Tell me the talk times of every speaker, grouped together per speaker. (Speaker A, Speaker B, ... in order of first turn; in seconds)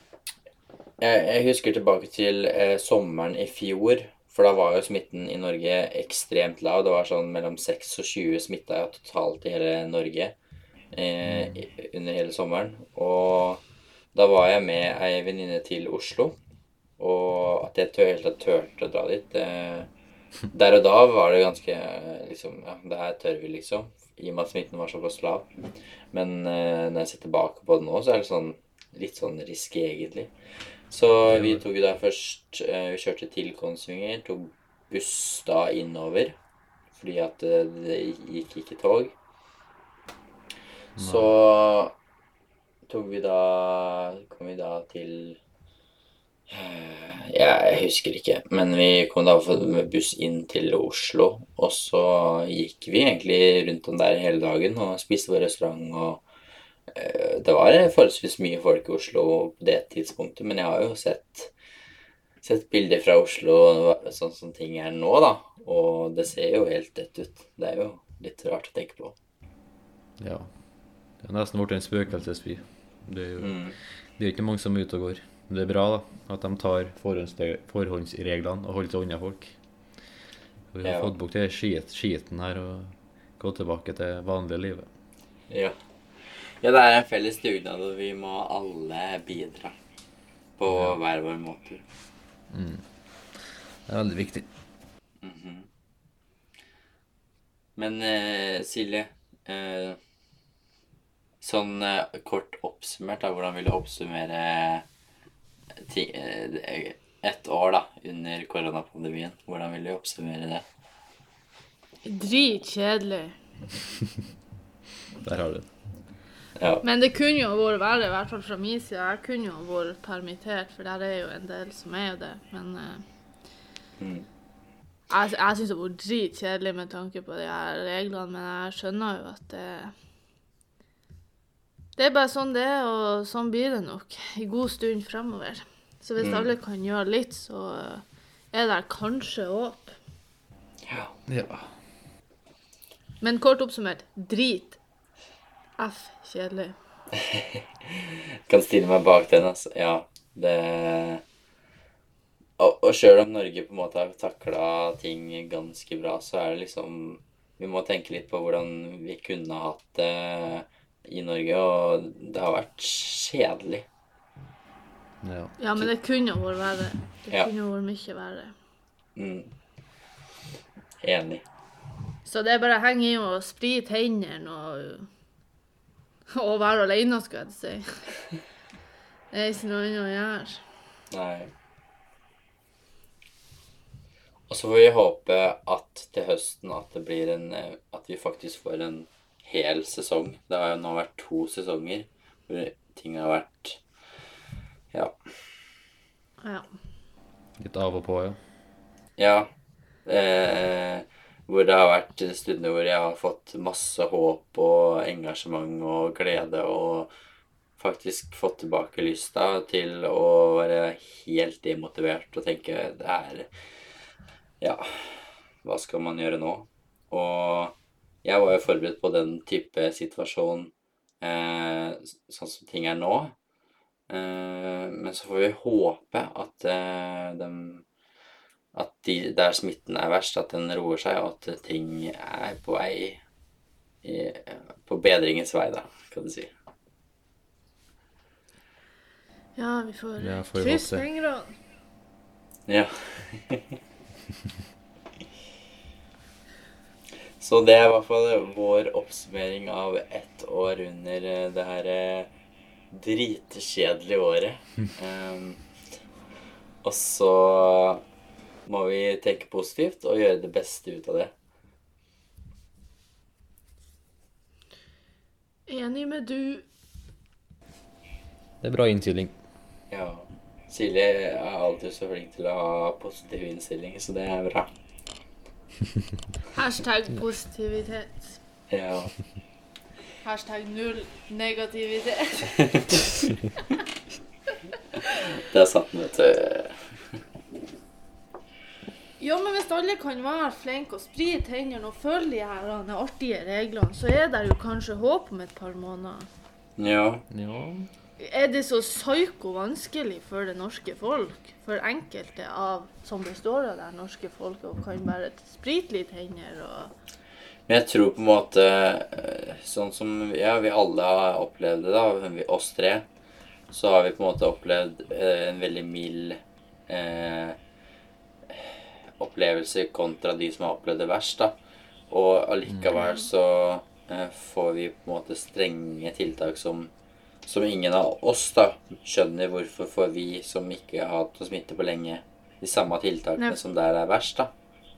Speaker A: 1.0-10.3, 10.9-13.6, 14.1-16.4, 17.0-19.9, 20.5-25.5, 26.1-30.3, 30.9-36.3, 36.9-39.1, 41.0-41.9, 42.9-45.4, 46.5-56.2, 56.9-61.5, 62.4-69.1, 73.4-73.8, 80.8-81.1, 85.5-85.7, 86.6-89.7, 90.6-91.8, 95.2-95.7, 97.8-100.0, 101.4-104.8, 105.8-110.6, 116.6-116.8, 124.0-124.2, 136.2-136.5, 140.9-141.1, 147.2-151.2, 152.6-163.8, 169.2-169.5, 171.0-171.4, 181.1-181.5, 184.5-193.8, 199.2-199.5, 200.1-207.1, 207.8-213.5, 214.6-223.3, 224.1-227.8, 228.7-233.2, 234.0-236.5, 242.7-243.7, 247.4-252.3, 252.9-255.6, 256.8-258.0, 258.6-261.3, 269.9-274.7, 278.7-279.1, 282.6-282.9, 285.3-286.8, 296.8-297.2, 307.7-313.1, 313.7-317.6, 318.5-321.6, 322.1-326.9, 327.4-334.5
Speaker B: 11.2-11.6, 31.3-31.6, 41.0-41.3, 70.2-70.5, 71.2-73.5, 74.2-79.5, 80.7-84.9, 90.7-91.0, 92.5-94.5, 115.2-115.7, 141.3-141.7, 165.2-165.5, 197.6-198.4, 240.2-241.0, 268.6-269.3, 297.3-297.9
Speaker C: 112.0-113.4, 116.8-123.0, 125.1-129.9, 131.9-139.9, 143.2-144.8, 145.8-146.8, 165.6-168.5, 172.2-175.1, 176.3-178.1, 179.3-180.6, 196.4-196.7, 239.6-241.5, 265.7-266.6, 276.5-278.4, 280.2-283.0, 289.2-296.3, 298.2-306.9, 322.9-323.2